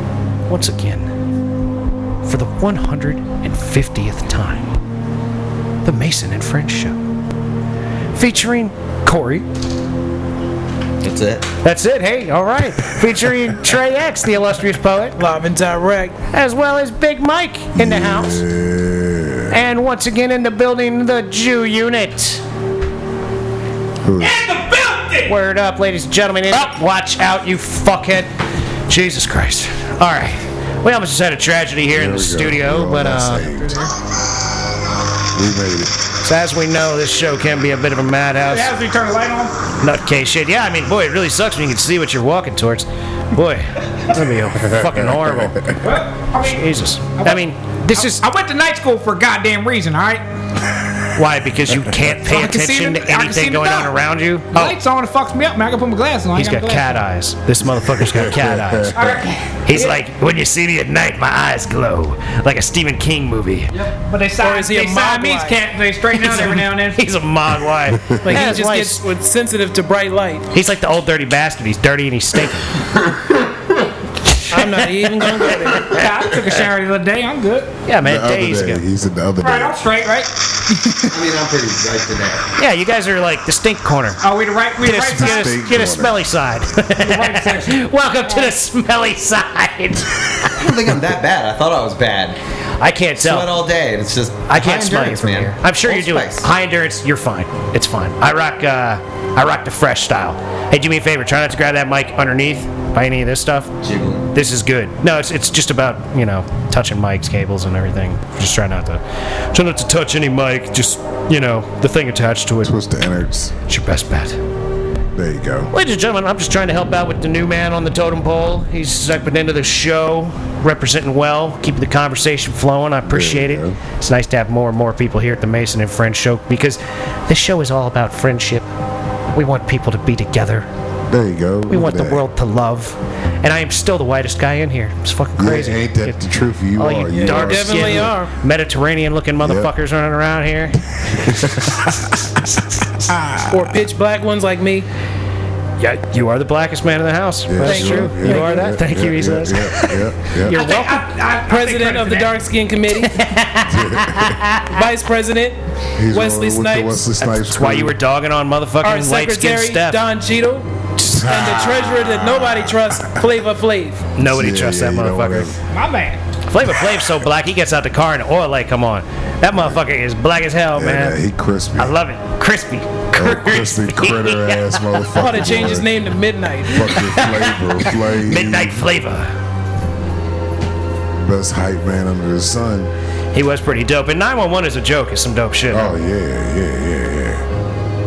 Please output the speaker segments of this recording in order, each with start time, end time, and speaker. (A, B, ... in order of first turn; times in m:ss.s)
0:00.5-0:01.1 A
0:02.2-0:04.7 A
0:05.8-0:07.0 A
0:08.1-0:09.5 A
0:11.0-0:11.5 B
0:11.6-0:15.2 A
0:15.2-0:16.2 C
0:16.3-0:18.4 A
0:17.8-0:19.6 D
0:19.5-0:22.4 A
0:24.0-0:24.5 D
0:24.2-0:25.4 E
0:25.3-0:28.3 A
0:28.9-0:33.5 A
0:31.9-0:33.8 D
0:33.5-0:33.9 E
0:35.3-0:35.9 D
0:36.2-0:38.7 A
0:38.5-0:39.6 E
0:39.8-0:45.6 A
0:44.5-0:45.8 D
0:45.8-0:50.2 E
0:46.4-0:48.2 A
0:51.2-0:54.8 A
0:51.7-0:52.0 D
0:52.2-0:53.9 E
0:54.5-0:57.0 E
0:56.4-0:59.1 A
0:57.6-0:59.3 D
0:59.0-1:00.0 E
0:59.6-1:03.7 A
1:03.7-1:07.0 E
1:04.4-1:05.6 C
1:06.1-1:09.0 A
1:07.9-1:08.6 D
1:08.2-1:10.5 C
1:10.5-1:12.7 A
1:13.0-1:13.8 D
1:14.3-1:16.6 A
1:14.5-1:16.0 C
1:15.6-1:16.1 D
1:15.8-1:17.7 E
1:17.9-1:18.8 A
1:18.0-1:19.8 D
1:19.4-1:21.0 E
1:21.1-1:22.4 B
1:22.6-1:24.2 A
1:24.2-1:25.6 E
1:24.8-1:30.5 A
1:24.9-1:26.6 D
1:27.0-1:28.5 E
1:30.5-1:32.4 B
1:32.8-1:33.5 A
1:33.2-1:36.5 B
1:34.5-1:43.7 A
1:43.8-1:44.3 B
1:44.3-1:49.0 A
1:49.5-1:52.8 A
1:52.6-1:53.5 D
1:53.7-1:54.4 A
1:55.2-1:55.7 D
1:55.7-2:08.7 A
2:03.0-2:03.8 D
2:09.3-2:10.7 A
2:11.1-2:12.2 D
2:11.7-2:16.2 A
2:15.4-2:18.1 D
2:16.8-2:21.8 A
2:17.1-2:18.3 C
2:19.4-2:19.7 D
2:21.1-2:21.8 D
2:23.1-2:23.6 D
2:23.5-2:24.9 C
2:25.8-2:31.1 A
2:27.5-2:30.6 D
2:27.6-2:28.7 C
2:30.5-2:32.4 E
2:31.5-2:33.2 C
2:33.1-2:34.7 A
2:33.7-2:34.4 D
2:34.7-2:37.0 C
2:36.0-2:38.0 D
2:37.2-2:40.0 A
2:38.8-2:44.1 C
2:41.1-2:43.3 D
2:44.2-2:45.6 A
2:44.2-2:45.6 D
2:45.7-2:46.2 E
2:46.5-2:51.2 A
2:49.5-2:49.8 D
2:50.8-2:52.0 D
2:51.8-2:55.2 A
2:53.2-2:56.0 D
2:55.2-2:57.0 C
2:56.7-2:58.9 D
2:57.0-2:59.3 A
3:01.2-3:02.9 D
3:03.3-3:05.9 A
3:05.7-3:07.5 D